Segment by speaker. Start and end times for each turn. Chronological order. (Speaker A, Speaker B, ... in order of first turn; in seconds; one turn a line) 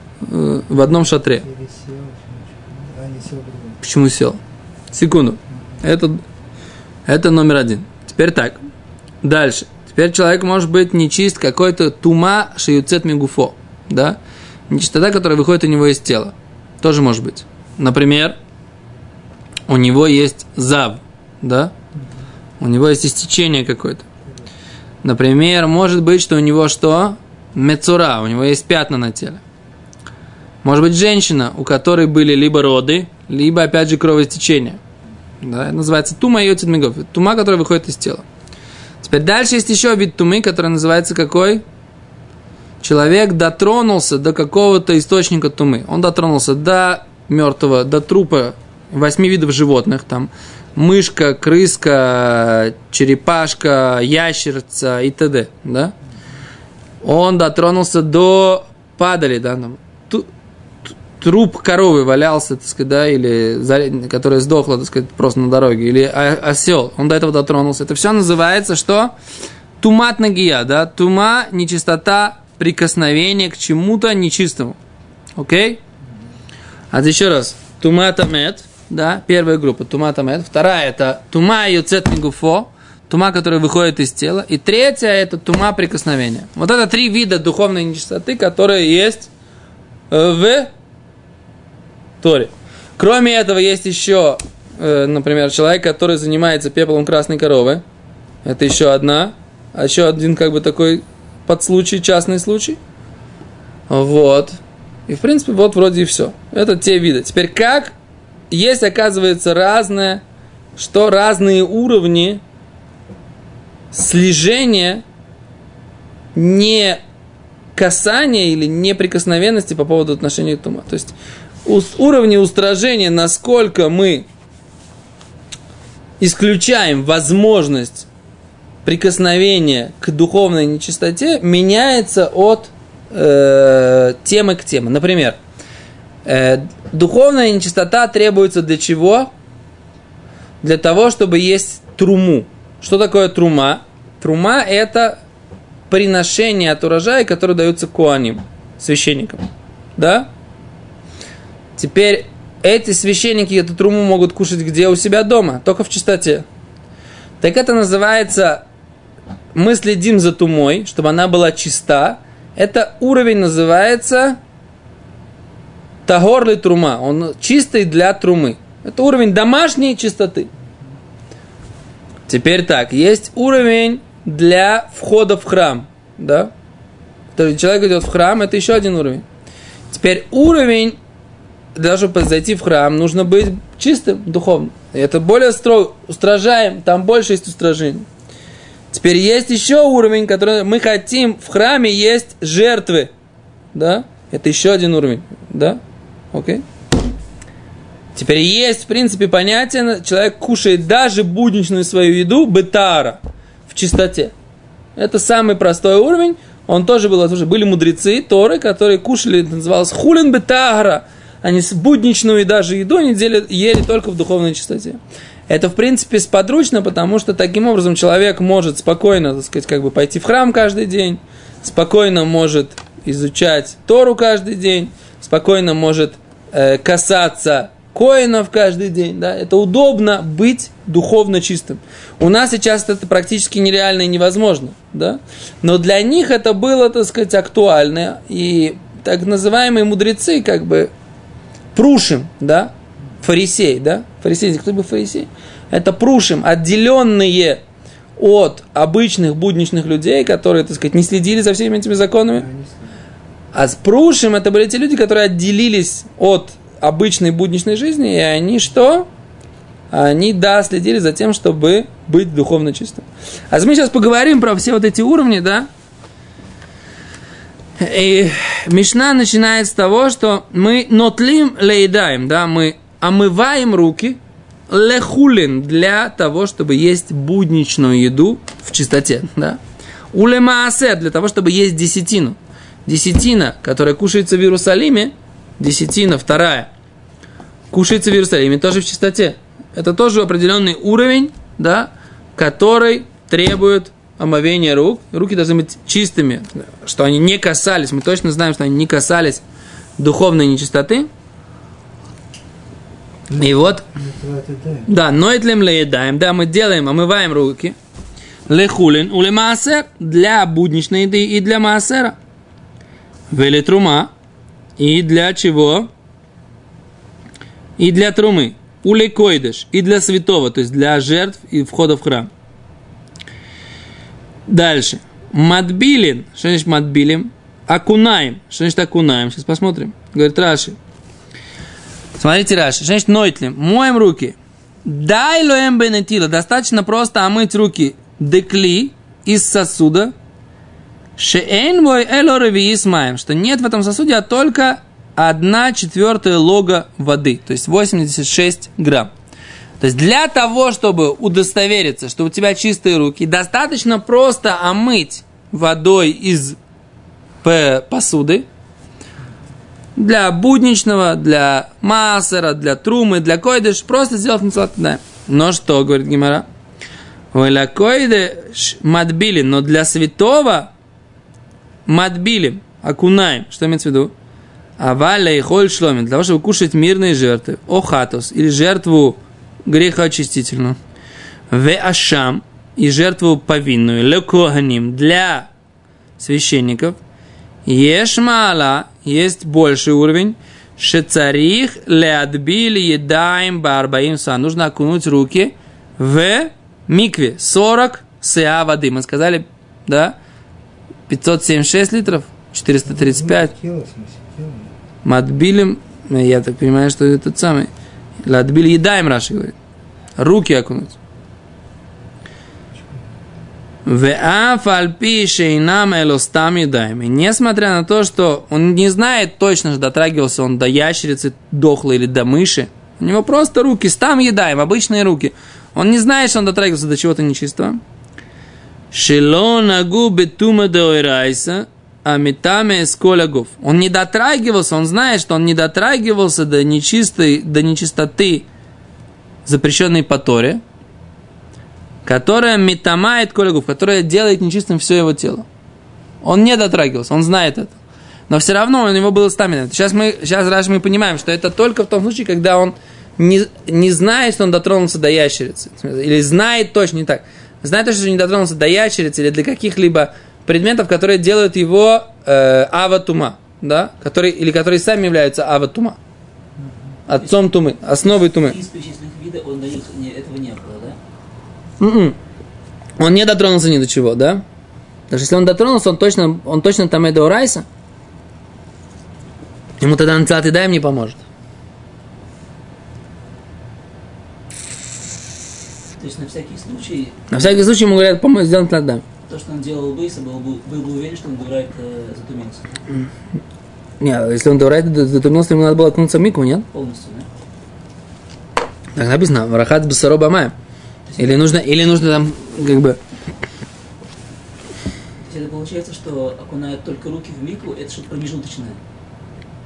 Speaker A: 0.2-1.4
Speaker B: 0.7-3.8
Speaker A: 3.8-4.4
Speaker A: 4.9-6.2
Speaker A: 7.1-8.6
Speaker A: 9.2-14.2
Speaker A: 14.7-18.4
Speaker A: 19.7-21.7
Speaker A: 22.6-24.1
Speaker A: 25.0-29.4
Speaker A: 30.6-34.8
Speaker A: 35.4-38.2
Speaker A: 39.0-41.6
Speaker A: 42.8-55.9
Speaker A: 57.0-60.3
Speaker A: 61.2-69.1
Speaker A: 69.8-74.8
Speaker A: 75.4-75.8
Speaker A: 76.9-89.3
Speaker A: 90.1-90.7
Speaker A: 92.2-97.8
Speaker A: 98.4-102.8
Speaker A: 103.9-108.0
Speaker A: 108.5-110.2
Speaker A: 110.8-112.4
Speaker A: 113.9-115.0
Speaker A: 116.3-117.0
Speaker A: 117.8-124.3
Speaker A: 126.2-128.1
Speaker A: 128.8-135.4
Speaker A: 136.2-139.3
Speaker A: 140.6-145.2
Speaker A: 145.9-150.3
Speaker A: 151.8-156.4
Speaker A: 157.4-158.6
Speaker A: 159.6-164.4
Speaker A: 166.1-170.5
Speaker A: 172.3-176.5
Speaker A: 177.3-179.2
Speaker A: 179.9-181.0
Speaker A: 181.8-188.1
Speaker A: 188.9-193.1
Speaker A: 193.7-195.8
Speaker A: 196.3-196.6
Speaker A: 198.2-204.3
Speaker A: 205.0-240.9
Speaker A: 241.8-247.6
Speaker A: 248.2-252.5
Speaker B: 252.3-253.0
Speaker A: 253.5-259.1
Speaker A: 259.9-265.7
Speaker A: 267.8-279.6
Speaker A: 280.1-286.7
Speaker A: 287.7-299.4
Speaker A: 300.0-301.1
Speaker B: 303.3-304.9
Speaker A: 303.4-303.8
Speaker A: 304.9-307.8
Speaker A: 308.5-312.2
Speaker A: 313.3-314.1
Speaker A: 314.8-315.9
Speaker A: 317.8-322.3
Speaker A: 324.5-330.8
Speaker A: 332.2-340.1
Speaker A: 341.2-349.1
Speaker A: 349.8-356.6
Speaker A: 357.4-358.4
Speaker A: 360.0-366.5
Speaker A: 367.3-370.7
Speaker A: 371.9-374.1
Speaker A: 374.8-380.8
Speaker A: 381.5-385.5
Speaker A: 386.2-387.0
Speaker A: 387.7-400.2
Speaker A: 401.1-403.5
Speaker B: 402.9-404.8
Speaker A: 405.1-407.7
Speaker A: 408.2-409.6
Speaker A: 410.2-411.0
Speaker B: 412.8-413.1
Speaker A: 413.9-427.8
Speaker A: 428.9-438.5
Speaker A: 439.4-440.6
Speaker A: 442.1-445.5
Speaker A: 446.2-447.8
Speaker A: 448.3-466.0
Speaker B: 466.6-466.9
Speaker A: 467.1-468.6
Speaker C: 467.2-471.0
Speaker A: 471.8-472.2
Speaker A: 473.0-474.4
Speaker A: 475.1-477.7
Speaker A: 479.8-481.2
Speaker C: 486.0-487.5
Speaker A: 487.3-489.1
Speaker C: 489.3-492.8
Speaker A: 494.0-496.7
Speaker C: 496.7-497.3
Speaker A: 498.9-500.5
Speaker C: 501.1-501.6
Speaker A: 501.2-503.0
Speaker C: 505.2-508.8